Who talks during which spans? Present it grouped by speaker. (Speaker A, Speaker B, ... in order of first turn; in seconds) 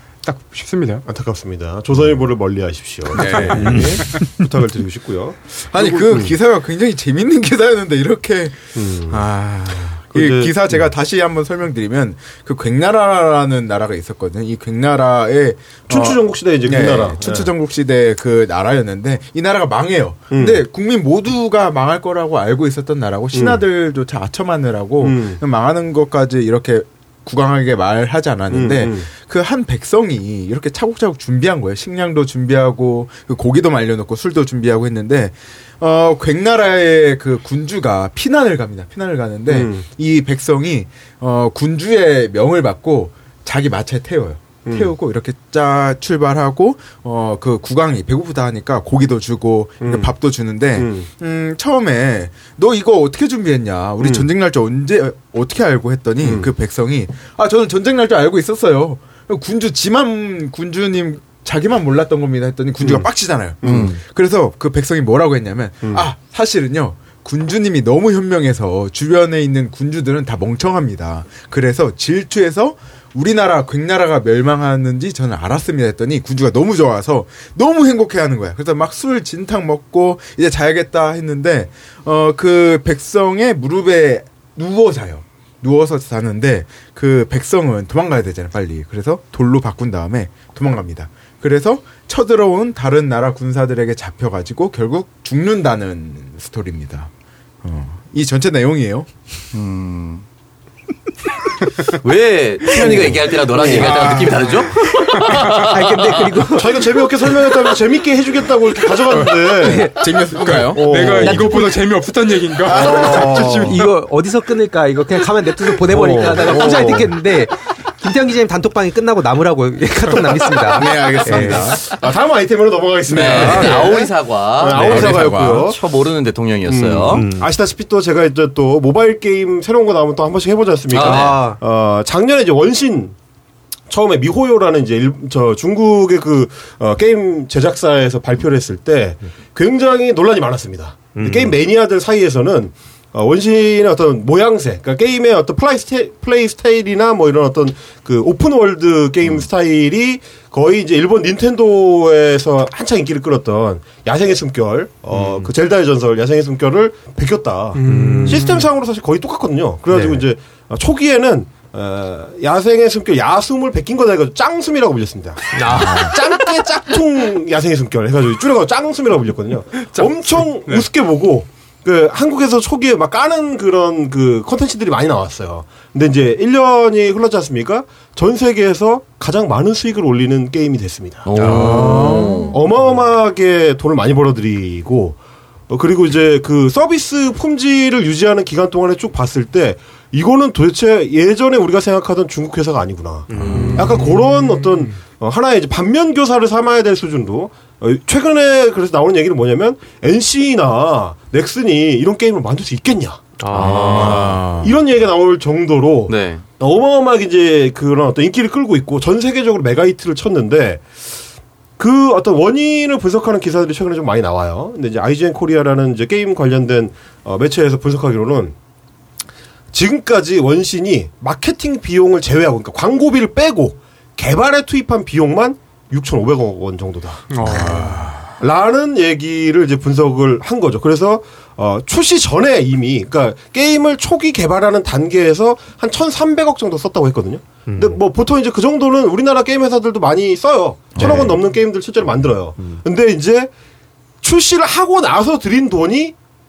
Speaker A: 0.2-1.1, 110.8-113.8, 157.8-158.7, 169.8-170.9, 193.6-194.1, 227.3-227.9
Speaker B: 1.1-6.3, 8.8-9.2, 10.1-10.9, 15.9-17.5, 20.3-20.6, 23.3-23.6, 25.0-25.4, 28.5-29.1, 39.5-39.9, 44.7-44.9, 49.8-50.1, 50.8-51.1, 54.0-54.3, 56.2-56.5, 62.8-63.1, 63.6-64.0, 102.8-104.3, 106.6-111.7, 112.7-113.8, 115.8-117.2, 121.3-125.8, 126.7-133.2, 133.9-210.9, 211.8-218.6, 219.7-243.5, 244.2-246.2
Speaker C: 3.1-4.0, 5.6-97.1, 97.6-99.3, 103.6-104.9, 109.7-111.7, 112.7-113.4, 120.7-121.9, 123.1-125.7, 181.4-182.6, 203.7-204.8, 227.5-228.3, 241.0-241.3
Speaker D: 3.6-4.5, 105.1-107.0, 109.6-110.8, 113.7-121.8, 127.1-127.5, 131.0-131.6, 141.1-141.6, 155.2-155.5, 157.8-158.5, 159.9-160.2, 165.5-166.2, 181.6-181.9, 193.3-194.1, 203.4-204.3, 237.7-238.0, 241.0-241.4
Speaker E: 63.6-64.0, 99.5-100.2, 102.0-106.2, 123.1-127.2, 130.9-131.4, 181.3-182.6, 193.4-193.8, 203.5-204.3, 206.1-206.4